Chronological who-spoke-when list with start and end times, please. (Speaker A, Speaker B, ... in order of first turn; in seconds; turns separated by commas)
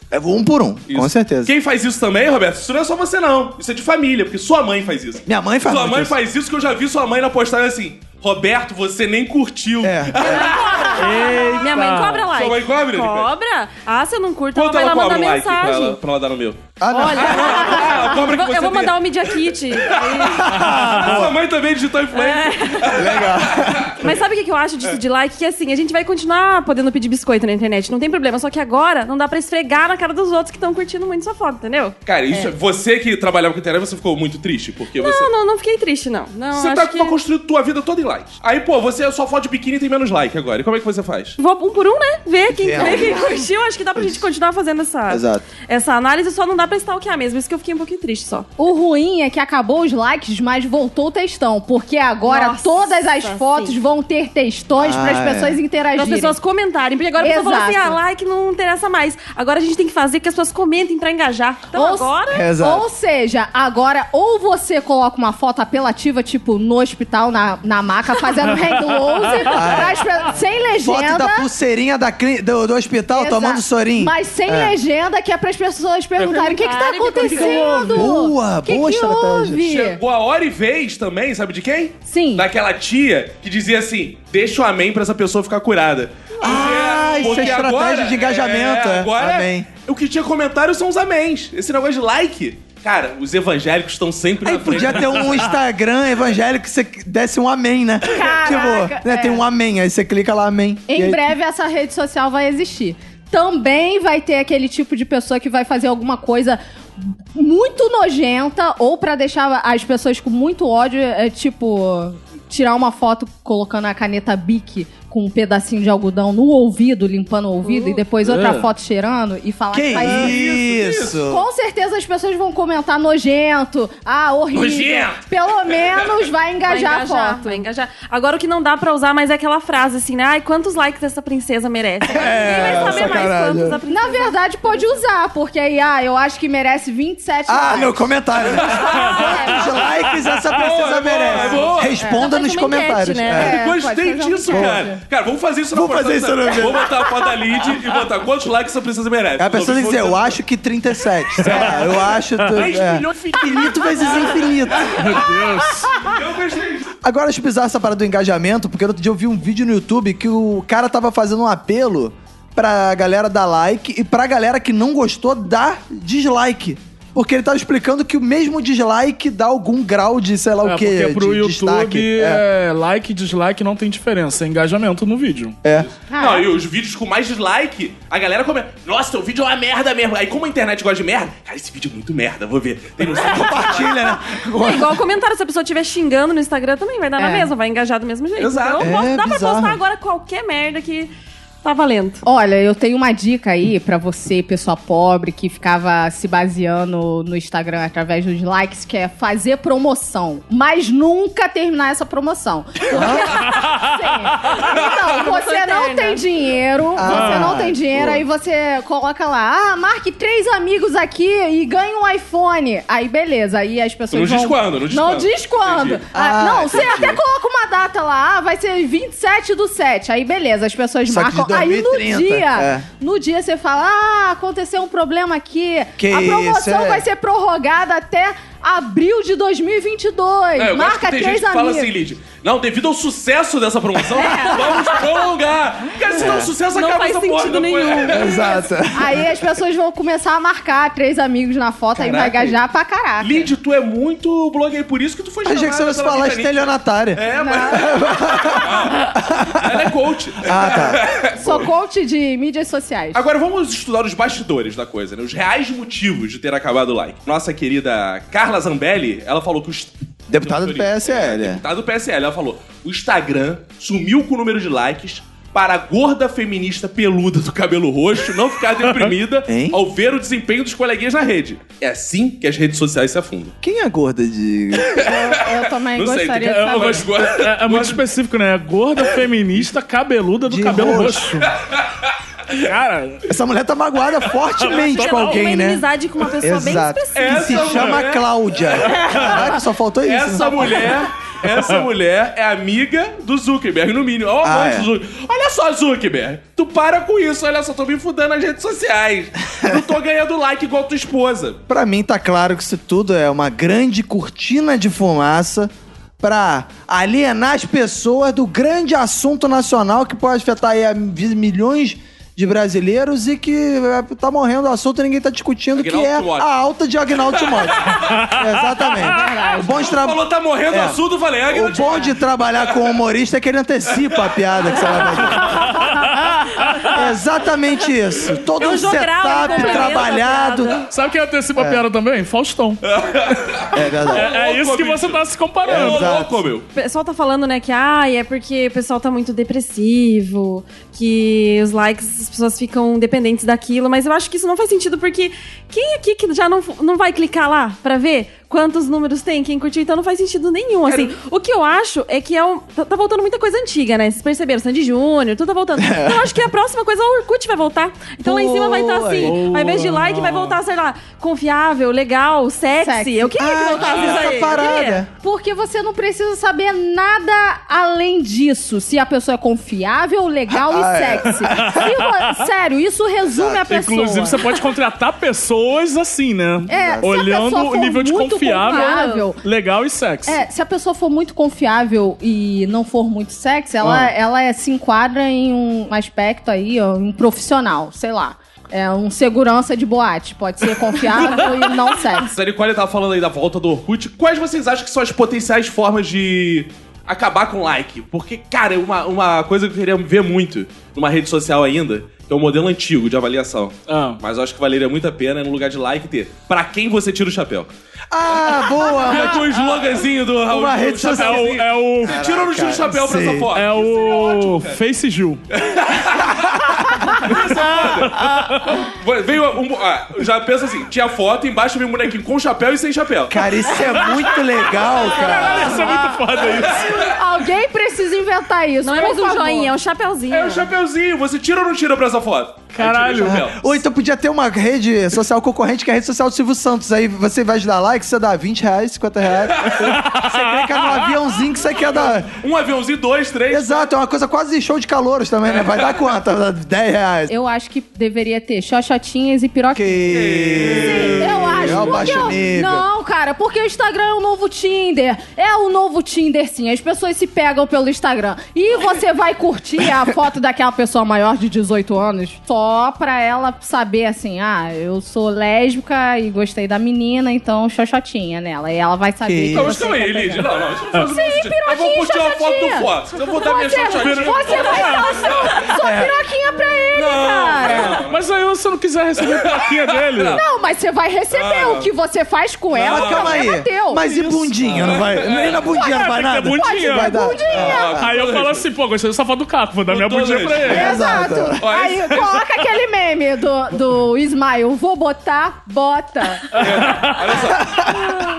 Speaker A: 0.1-1.5, Speaker B: 0.9-11.4, Speaker A: 5.3-6.2, Speaker A: 9.8-10.4, Speaker C: 10.2-16.0, Speaker D: 11.0-12.3, Speaker B: 12.3-13.3, Speaker B: 14.6-24.0, Speaker A: 16.8-17.7, Speaker C: 16.9-21.2, Speaker A: 20.4-21.4, Speaker C: 22.1-23.2, Speaker A: 22.9-24.1, Speaker C: 24.0-32.5, Speaker B: 32.1-35.3, Speaker C: 35.0-37.2, Speaker B: 36.5-41.4, Speaker C: 41.4-48.5, Speaker A: 42.5-43.4, Speaker A: 44.0-44.2, Speaker A: 45.1-45.5, Speaker E: 48.6-56.4, Speaker C: 52.3-53.8, Speaker A: 54.8-55.6, Speaker C: 56.0-62.5, Speaker E: 57.2-58.0, Speaker E: 61.7-71.5, Speaker A: 62.3-62.9, Speaker A: 69.5-70.0, Speaker A: 70.8-74.8, Speaker E: 73.1-80.0, Speaker C: 76.2-78.1, Speaker B: 77.3-77.6, Speaker A: 77.9-79.7, Speaker B: 79.6-95.4, Speaker E: 82.1-82.5, Speaker E: 86.4-87.5, Speaker A: 86.4-89.7, Speaker A: 94.4-101.3, Speaker E: 98.1-99.4, Speaker E: 100.9-120.4, Speaker C: 117.6-118.0, Speaker D: 118.2-118.7, Speaker A: 119.7-121.5, Speaker B: 120.0-121.2, Speaker E: 121.2-127.6, Speaker B: 124.5-126.1, Speaker C: 126.7-134.9, Speaker A: 132.1-133.8, Speaker E: 132.1-133.3, Speaker E: 133.9-139.9, Speaker A: 137.5-143.6, Speaker B: 140.5-142.0, Speaker E: 141.3-142.3, Speaker C: 142.0-143.5, Speaker E: 143.3-145.0, Speaker B: 143.4-150.4, Speaker A: 144.5-144.8, Speaker A: 145.7-146.9, Speaker A: 149.4-155.2, Speaker B: 151.4-151.8, Speaker D: 152.4-152.7, Speaker B: 152.5-154.4, Speaker D: 154.8-156.1, Speaker B: 156.0-156.9, Speaker A: 157.0-172.4, Speaker D: 170.6-175.6, Speaker A: 175.6-175.9, Speaker B: 175.8-184.1, Speaker E: 176.1-176.5, Speaker A: 183.1-185.0, Speaker C: 184.6-191.1, Speaker E: 187.2-187.5, Speaker B: 188.4-189.0, Speaker A: 188.8-189.8, Speaker C: 191.6-192.2, Speaker E: 192.2-231.9, Speaker A: 202.9-203.3, Speaker C: 204.6-206.2, Speaker A: 207.0-208.2, Speaker D: 207.1-207.6, Speaker B: 214.1-216.0, Speaker A: 216.1-217.2, Speaker A: 221.1-222.9, Speaker A: 226.0-227.1, Speaker B: 230.6-238.6, Speaker E: 234.1-235.0, Speaker A: 236.1-236.5, Speaker C: 236.7-238.6, Speaker A: 238.1-239.4, Speaker E: 238.9-243.5, Speaker A: 242.0-242.6, Speaker B: 243.2-251.7, Speaker A: 245.4-251.1, Speaker E: 247.3-248.7, Speaker E: 251.3-253.2, Speaker B: 253.1-273.6, Speaker A: 260.3-261.6, Speaker A: 269.5-269.8, Speaker A: 273.6-275.0, Speaker B: 274.8-278.0, Speaker E: 274.9-277.1, Speaker D: 276.4-281.5, Speaker A: 280.5-281.3, Speaker D: 282.5-283.3, Speaker A: 283.3-285.8, Speaker D: 284.6-285.5, Speaker C: 284.8-287.9, Speaker A: 286.4-290.9, Speaker B: 287.1-289.0, Speaker B: 290.0-301.6, Speaker C: 290.4-291.0, Speaker A: 294.4-294.9, Speaker A: 301.7-321.0, Speaker B: 315.7-316.5, Speaker B: 317.2-318.2, Speaker D: 318.1-318.4, Speaker E: 319.1-319.9, Speaker B: 319.7-322.8, Speaker A: 321.5-325.7, Speaker B: 323.9-324.3, Speaker B: 324.8-325.3, Speaker D: 325.4-327.0, Speaker E: 325.6-326.0, Speaker A: 326.9-330.8, Speaker C: 328.6-330.9, Speaker E: 329.5-330.0, Speaker D: 330.9-332.8, Speaker A: 331.6-331.8, Speaker B: 332.9-336.7, Speaker A: 333.7-334.3, Speaker D: 334.1-336.2, Speaker A: 335.7-336.3, Speaker C: 336.8-365.0, Speaker A: 355.8-356.4, Speaker A: 358.2-359.4, Speaker D: 359.2-360.6, Speaker E: 362.8-374.5, Speaker A: 363.4-365.1, Speaker B: 363.8-364.3, Speaker A: 370.5-371.9, Speaker D: 371.5-372.4, Speaker A: 373.3-373.7, Speaker D: 373.7-380.4, Speaker E: 376.7-379.4, Speaker A: 376.7-377.1, Speaker C: 378.7-379.3, Speaker E: 380.3-392.3, Speaker B: 392.2-407.7, Speaker D: 403.9-404.2, Speaker A: 408.1-409.5, Speaker B: 408.3-414.8, Speaker A: 410.5-413.5, Speaker D: 411.1-412.2, Speaker D: 413.5-415.4, Speaker B: 415.5-416.6, Speaker A: 416.4-417.1, Speaker B: 417.1-423.4, Speaker D: 417.2-418.9, Speaker A: 423.3-425.8, Speaker D: 423.8-424.1, Speaker D: 425.1-427.0, Speaker B: 425.2-425.9, Speaker E: 425.2-429.7, Speaker B: 426.4-427.1, Speaker C: 428.8-430.7, Speaker B: 430.3-433.7, Speaker D: 432.7-433.4, Speaker A: 433.2-442.4, Speaker B: 439.6-440.0, Speaker D: 439.8-441.1, Speaker B: 441.8-443.9, Speaker A: 443.5-447.3, Speaker B: 445.5-445.9, Speaker E: 447.3-478.0, Speaker A: 449.7-452.9, Speaker B: 450.1-452.4, Speaker A: 469.2-469.8, Speaker B: 469.5-475.8, Speaker D: 473.9-475.3, Speaker C: 474.4-475.3, Speaker A: 475.8-476.1, Speaker B: 476.9-478.2, Speaker D: 478.0-480.4, Speaker B: 479.2-480.4, Speaker E: 480.3-484.0, Speaker B: 481.3-481.9, Speaker B: 482.8-483.4, Speaker A: 482.8-488.1, Speaker B: 484.0-485.7, Speaker E: 485.7-488.0, Speaker D: 485.8-487.2, Speaker B: 487.5-488.7, Speaker D: 487.9-491.0, Speaker B: 489.9-490.9, Speaker A: 490.6-491.6, Speaker E: 490.6-496.7, Speaker B: 491.6-492.4, Speaker D: 496.5-497.3, Speaker B: 496.6-497.7, Speaker A: 497.6-498.2